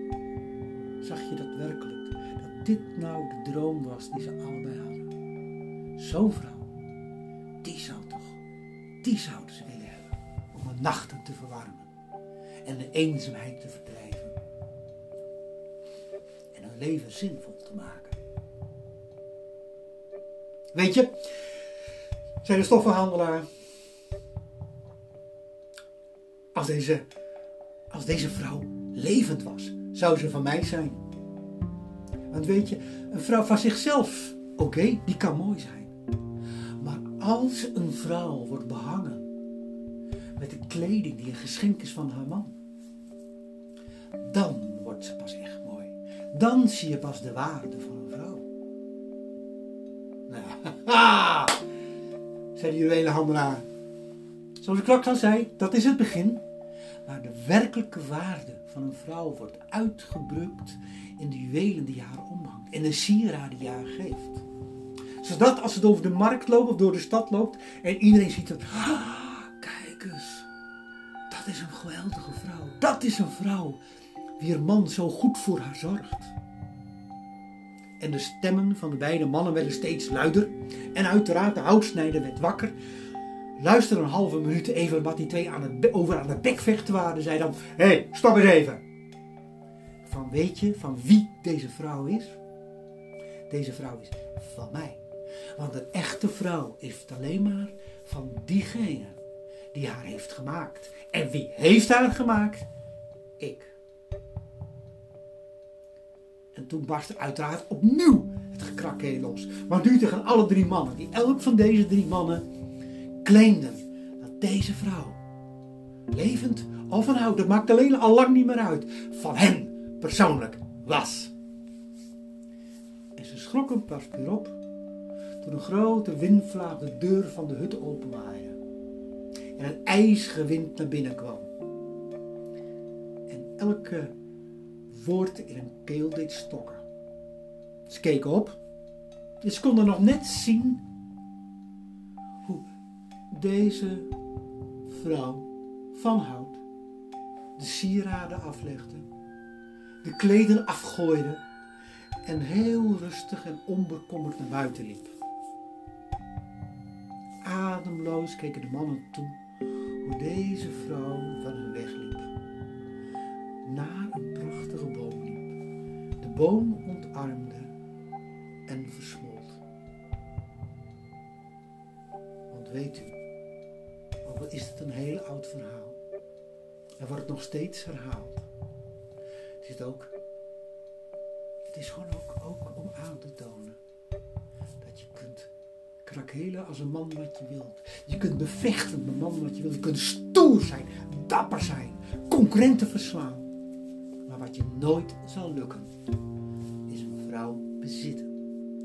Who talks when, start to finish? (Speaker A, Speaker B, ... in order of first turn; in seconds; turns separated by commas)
Speaker A: 1.0-5.1, Speaker A: 6.0-6.7, Speaker A: 7.6-8.4, Speaker A: 9.0-11.9, Speaker A: 12.6-14.3, Speaker A: 16.5-18.2, Speaker A: 20.7-21.2, Speaker A: 22.4-23.5, Speaker A: 26.5-27.1, Speaker A: 27.9-31.0, Speaker A: 32.3-35.9, Speaker A: 36.8-39.2, Speaker A: 40.4-42.5, Speaker A: 44.2-48.4, Speaker A: 50.3-51.6, Speaker A: 52.5-53.6, Speaker A: 54.6-56.4, Speaker A: 57.0-64.4, Speaker A: 65.2-70.5, Speaker A: 71.3-73.8, Speaker A: 74.4-76.3, Speaker A: 78.0-82.8, Speaker A: 83.6-88.8, Speaker A: 90.0-92.4, Speaker A: 93.5-95.0, Speaker A: 95.5-99.2, Speaker A: 99.7-102.7, Speaker A: 103.4-103.8, Speaker A: 106.5-112.4, Speaker A: 113.2-115.2, Speaker A: 116.1-121.3, Speaker A: 123.2-124.6, Speaker A: 125.4-128.6, Speaker A: 129.6-131.5, Speaker A: 133.3-134.1, Speaker A: 134.9-136.8, Speaker A: 137.9-138.6, Speaker A: 139.4-140.8, Speaker A: 143.3-144.1, Speaker A: 144.8-146.6, Speaker A: 147.6-149.1, Speaker A: 150.0-151.4, Speaker A: 152.2-155.1, Speaker A: 157.4-159.4, Speaker A: 160.0-162.3, Speaker A: 163.6-165.5, Speaker A: 166.2-167.7, Speaker A: 168.7-169.6, Speaker A: 172.5-173.2, Speaker A: 174.2-176.0, Speaker A: 177.0-178.5, Speaker A: 179.6-180.1, Speaker A: 181.7-183.8, Speaker A: 184.8-185.5, Speaker A: 186.0-193.5, Speaker A: 194.2-195.9, Speaker A: 196.9-198.3